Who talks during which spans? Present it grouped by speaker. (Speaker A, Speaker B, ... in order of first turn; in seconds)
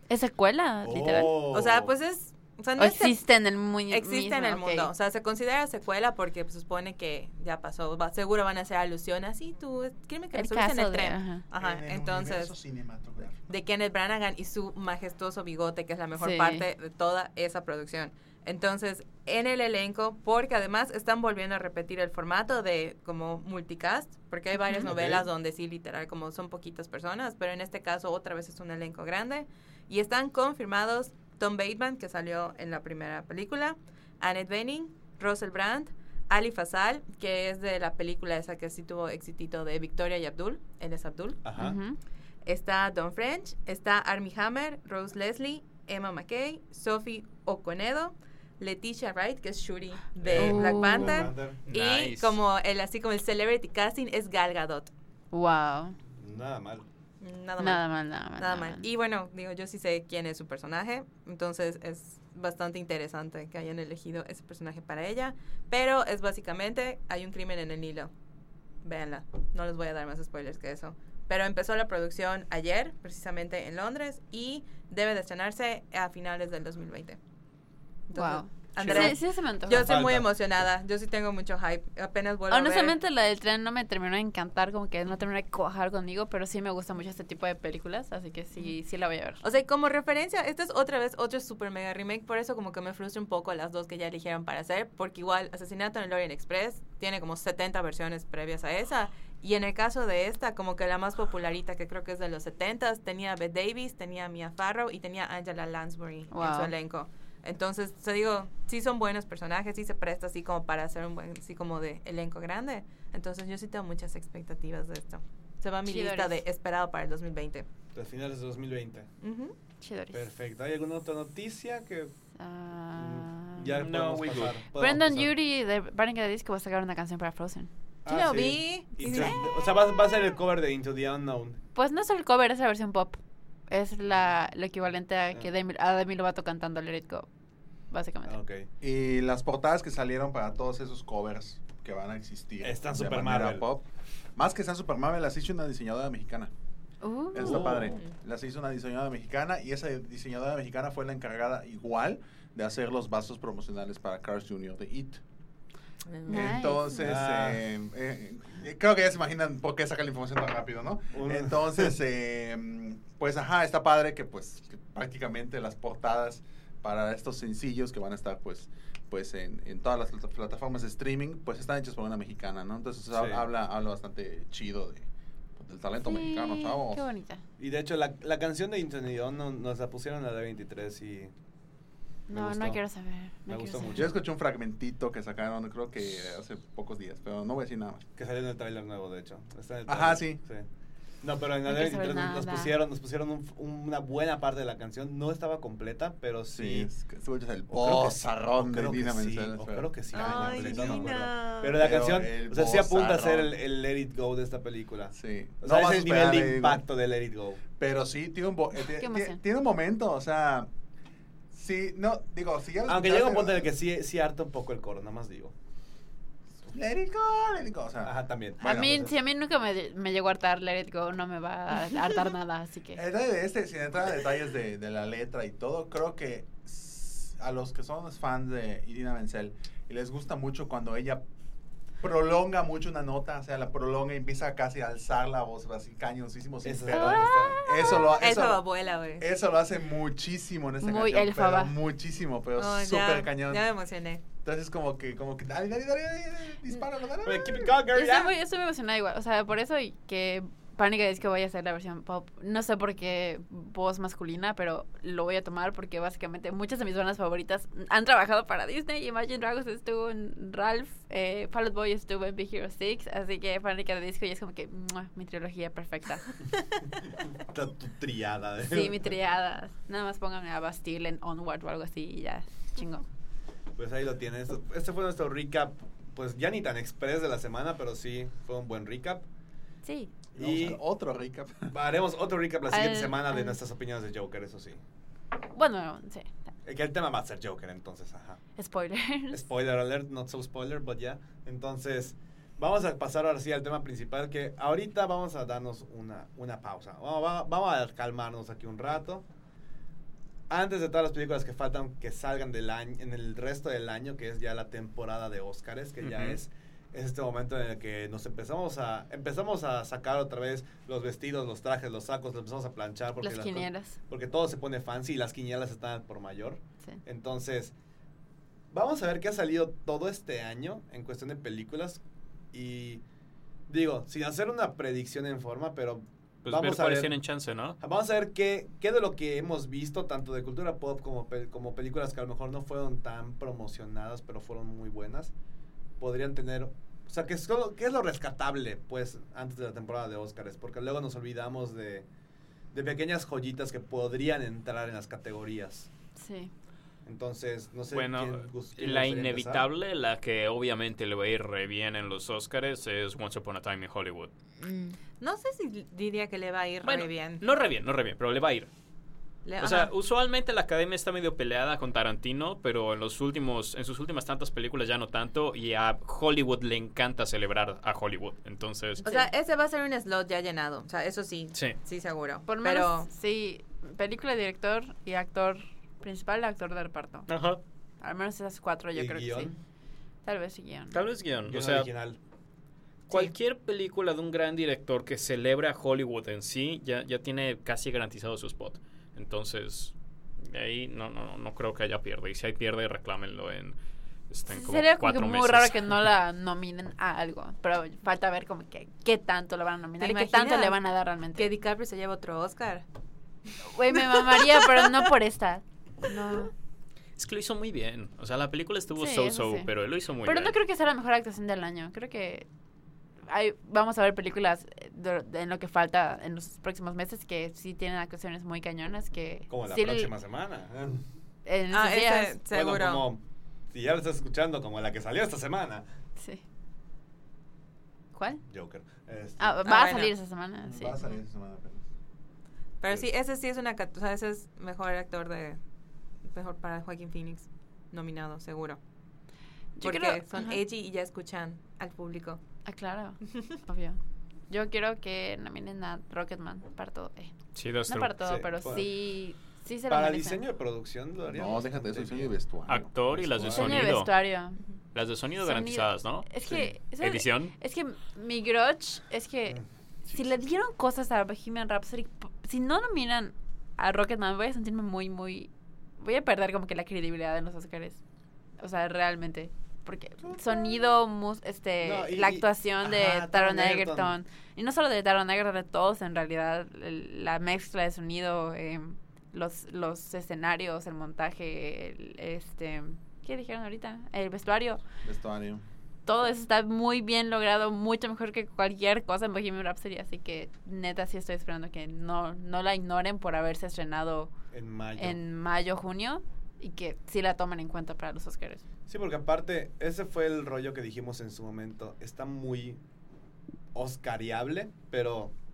Speaker A: 0.1-1.4, 2.8-4.9, 10.3-11.4, 16.2-16.6, 41.6-42.0, 50.3-51.2, 55.3-56.0, 57.6-58.9, 78.1-79.9, 82.5-89.4, 106.3-106.7, 115.8-116.4, 119.8-120.2, 122.3-123.7, 124.7-127.7, 131.7-137.3, 137.9-138.3, 147.0-147.6, 156.3-157.1, 176.0-177.4, 182.3-184.1, 191.6-192.7, 209.0-209.4, 218.6-223.0, 236.9-238.0, 240.8-241.7, 247.9-266.3, 268.7-273.0, 279.8-280.1, 282.7-283.6, 285.5-286.3, 288.6-289.4, 313.2-314.0, 346.1-346.5, 354.6-354.9, 369.0-369.3, 372.5-377.3, 378.0-379.5, 380.2-381.0, 394.5-401.5, 403.7-406.5, 408.9-409.7, 410.2-412.4, 413.3-420.1, 421.4-422.4, 426.2-426.4, 428.1-428.4, 429.4-431.0, 439.8-440.6, 442.6-444.0, 444.5-447.3, 447.9-450.4, 453.5-454.6, 455.4-459.6, 460.1-468.0, 468.6-484.8, 486.1-494.3, 495.0-498.6
Speaker B: 0.8-1.9, 24.8-25.3, 41.4-41.8, 50.2-51.6, 56.1-56.8, 79.7-80.3, 117.9-119.1, 120.1-122.1, 122.9-125.3, 128.1-131.6, 138.2-138.7, 142.6-143.7, 147.4-148.0, 157.0-157.6, 161.1-161.9, 173.1-173.4, 177.6-181.3, 182.3-182.8, 183.5-184.1, 188.2-190.7, 191.2-196.9, 197.7-207.6, 212.9-215.5, 218.0-219.1, 236.6-238.1, 247.2-248.3, 267.4-269.1, 273.7-279.2, 280.3-280.8, 281.7-284.8, 286.6-288.4, 289.3-299.2, 300.5-317.7, 318.7-322.0, 322.5-323.0, 323.7-327.2, 327.8-335.3, 336.0-342.1, 342.7-345.9, 347.0-349.6, 378.9-379.6, 381.5-382.2, 419.5-421.0, 422.5-425.8, 428.5-429.6, 448.2-448.9, 449.9-452.3, 453.1-453.6, 470.2-470.6, 471.8-474.1, 494.5-495.2, 498.9-502.8, 503.7-505.3
Speaker C: 1.5-3.2, 3.9-12.5, 13.5-41.4, 42.5-54.9, 57.2-68.1, 68.8-77.2, 78.1-83.0, 89.4-117.7, 119.2-119.5, 128.1-129.6, 147.7-148.1, 156.1-156.8, 200.1-201.8, 238.1-239.3, 242.6-244.2, 355.2-357.4, 359.4-359.9, 369.0-373.1, 400.0-400.8, 401.3-402.8, 403.9-405.1, 421.7-423.1, 429.6-430.1, 432.8-435.6, 436.3-438.8, 439.8-442.4
Speaker D: 11.6-13.4, 138.8-146.5, 147.3-155.2, 156.3-177.0, 183.9-188.1, 189.8-190.4, 196.5-201.2, 201.7-203.5, 205.1-206.8, 207.8-210.7, 211.5-213.7, 216.7-219.1, 222.9-231.2, 232.0-238.6, 239.2-243.7, 244.4-247.8, 280.4-281.7, 430.6-431.8, 451.3-453.9, 485.0-485.6
Speaker E: 51.6-52.4, 123.6-124.6, 306.0-306.4, 326.4-327.8, 347.9-354.3, 356.8-358.7, 359.6-369.0, 371.5-371.8, 377.3-377.6, 380.9-381.9, 383.1-393.8, 394.3-396.1, 407.2-410.6, 447.5-448.1, 452.7-454.1, 454.9-456.3, 457.0-457.5